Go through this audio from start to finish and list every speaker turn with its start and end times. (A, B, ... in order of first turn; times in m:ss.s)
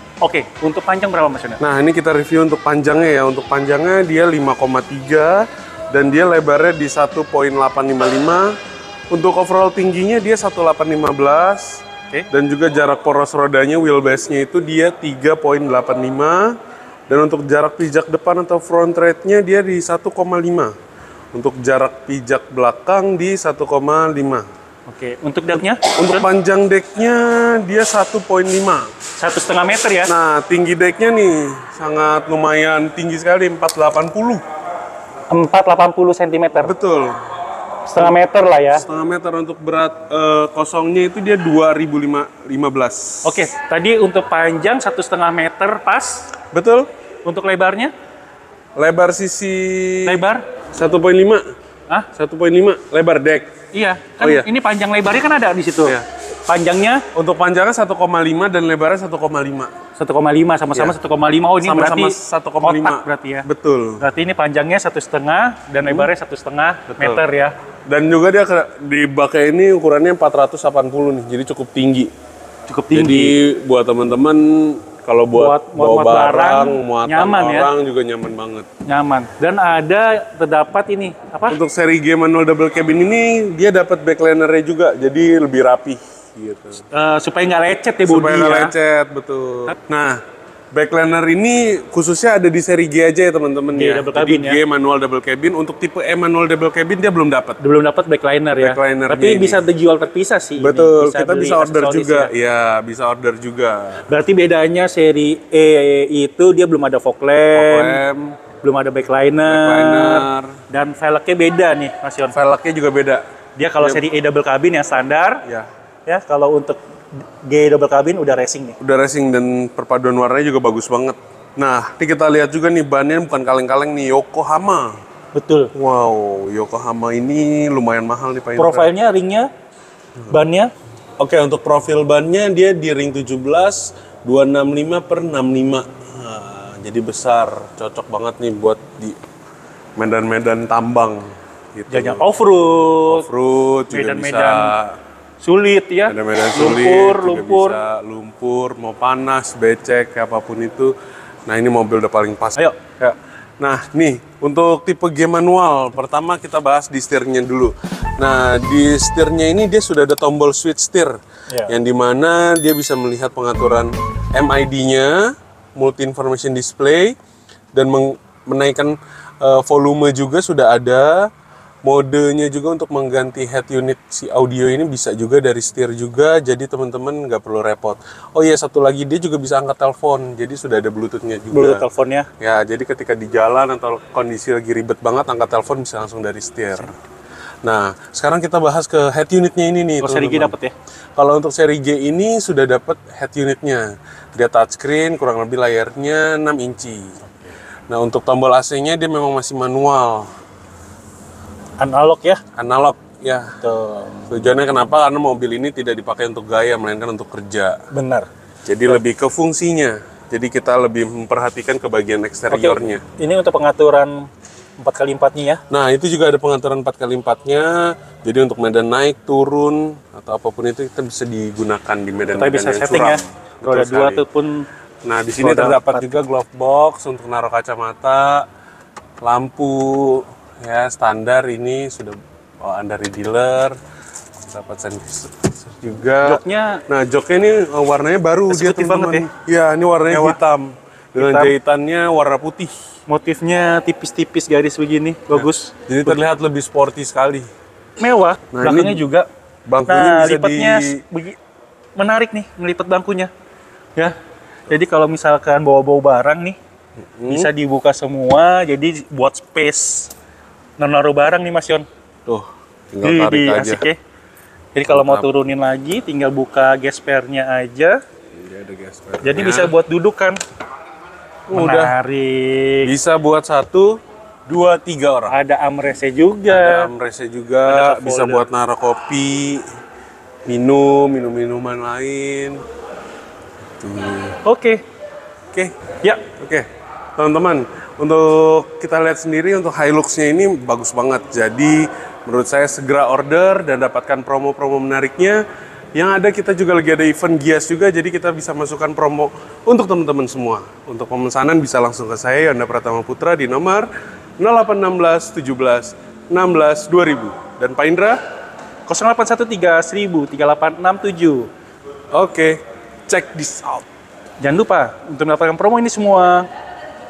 0:00.2-0:01.6 A
0:01.6-0:08.6 B
0:09.1-0:16.5 B
0:17.1-0:20.7 B
0:21.3-0:24.5 B
0:24.9-0:26.2 A
0:26.0-0:28.9 B
0:29.2-0:30.1 A
0:30.0-0:34.4 B
0:35.3-0:36.7 A
0:36.5-0:37.2 B
0:37.8-0:38.8 A
0:38.7-0:43.5 B
0:43.2-0:46.3 A
0:46.5-0:46.9 B
0:47.2-0:47.9 A
0:48.8-0:51.4 B
0:50.0-0:50.4 A
0:52.1-0:53.5 B
0:53.7-0:57.0 A
0:54.2-0:54.5 B
0:57.1-0:59.7 B
0:59.9-1:03.5 A
1:01.6-1:04.0 B
1:04.0-1:07.5 A
1:05.8-1:06.1 B
1:06.9-1:07.2 B
1:07.9-1:12.1 B
1:12.7-1:13.4 A
1:12.9-1:18.7 B
1:15.3-1:17.7 A
1:18.9-1:21.6 A
1:21.5-1:26.8 B
1:26.9-1:28.7 A
1:28.0-1:30.2 B
1:30.7-1:37.6 B
1:33.7-1:34.6 A
1:37.6-1:42.3 A
1:38.6-1:39.6 B
1:40.6-1:44.0 B
1:44.1-1:48.0 A
1:47.5-1:48.4 B
1:48.6-1:52.4 A
1:49.4-1:50.6 B
1:52.3-1:53.2 B
1:53.6-1:55.4 A
1:56.1-1:56.8 A
1:57.4-1:58.8 A
1:58.8-2:04.9 B
2:05.3-2:05.7 A
2:05.7-2:08.9 B
2:08.6-2:09.5 A
2:10.3-2:10.7 A
2:11.2-2:19.2 B
2:20.0-2:22.2 B
2:21.9-2:23.3 A
2:23.1-2:25.0 B
2:23.9-2:24.7 A
2:25.4-2:27.8 A
2:26.1-2:30.9 B
2:31.5-2:41.1 B
2:41.7-2:47.1 B
2:47.7-2:51.3 B
2:51.8-3:01.8 B
3:01.5-3:02.3 A
3:02.4-3:07.0 B
3:07.6-3:10.5 B
3:10.0-3:10.7 A
3:11.2-3:17.1 B
3:17.9-3:20.3 B
3:21.8-3:22.4 A
3:22.6-3:23.5 B
3:23.6-3:24.3 A
3:24.3-3:27.8 B
3:27.9-3:28.3 A
3:28.6-3:33.0 B
3:32.5-3:34.3 A
3:34.8-3:35.6 A
3:35.7-3:44.2 B
3:42.3-3:44.6 A
3:45.0-3:48.4 B
3:45.4-3:46.2 A
3:49.2-3:53.8 B
3:54.4-4:02.7 B
3:56.2-3:56.8 A
3:58.5-3:59.3 A
4:00.1-4:00.4 A
4:01.2-4:01.5 A
4:03.1-4:06.2 A
4:05.3-4:07.5 B
4:08.0-4:09.3 A
4:08.5-4:09.0 B
4:09.7-4:11.0 B
4:09.9-4:11.4 A
4:12.0-4:13.3 A
4:14.7-4:16.6 A
4:17.2-4:17.5 B
4:17.3-4:20.1 A
4:20.8-4:21.8 A
4:22.2-4:23.8 B
4:23.0-4:24.0 A
4:24.7-4:28.0 A
4:24.9-4:25.3 B
4:28.4-4:29.7 B
4:29.2-4:30.4 A
4:31.5-4:31.9 B
4:31.5-4:32.9 A
4:32.8-4:35.3 B
4:35.3-4:36.9 A
4:36.5-4:39.6 B
4:37.6-4:38.5 A
4:40.4-4:42.6 B
4:43.8-4:44.4 B
4:44.4-4:44.8 A
4:46.4-4:46.6 B
4:47.2-4:55.4 B
4:55.9-5:08.2 B
5:08.9-5:11.5 A
5:12.1-5:13.8 B
5:14.4-5:16.5 A